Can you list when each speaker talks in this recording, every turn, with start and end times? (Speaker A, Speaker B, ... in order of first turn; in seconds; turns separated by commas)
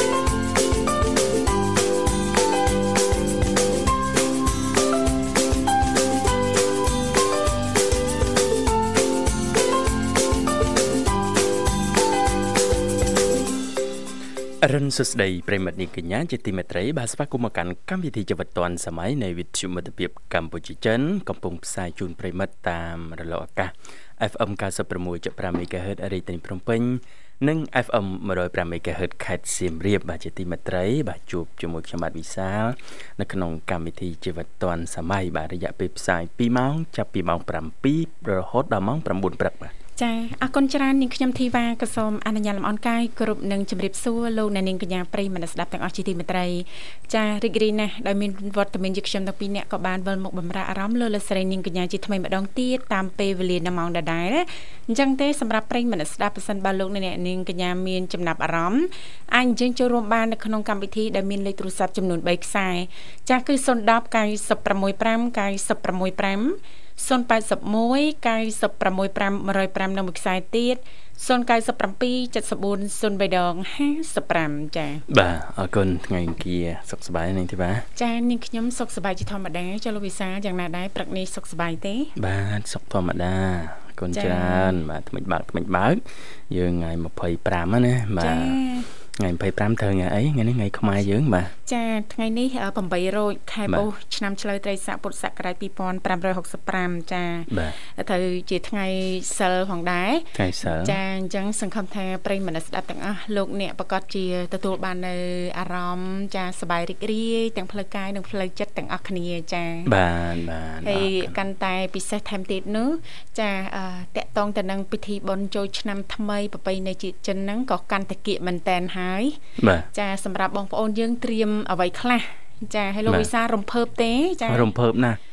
Speaker A: 14.6-39.7, Speaker B: 40.0-75.0, Speaker A: 75.1-77.8, Speaker B: 78.0-82.1, Speaker A: 82.2-88.6, Speaker B: 84.1-84.8, Speaker B: 88.2-88.9, Speaker A: 89.2-91.5, Speaker B: 91.7-109.9, Speaker A: 97.5-97.8, Speaker A: 100.3-101.0, Speaker A: 109.9-111.3, Speaker B: 110.8-119.4, Speaker A: 119.6-119.9, Speaker B: 119.9-124.7, Speaker A: 124.5-125.2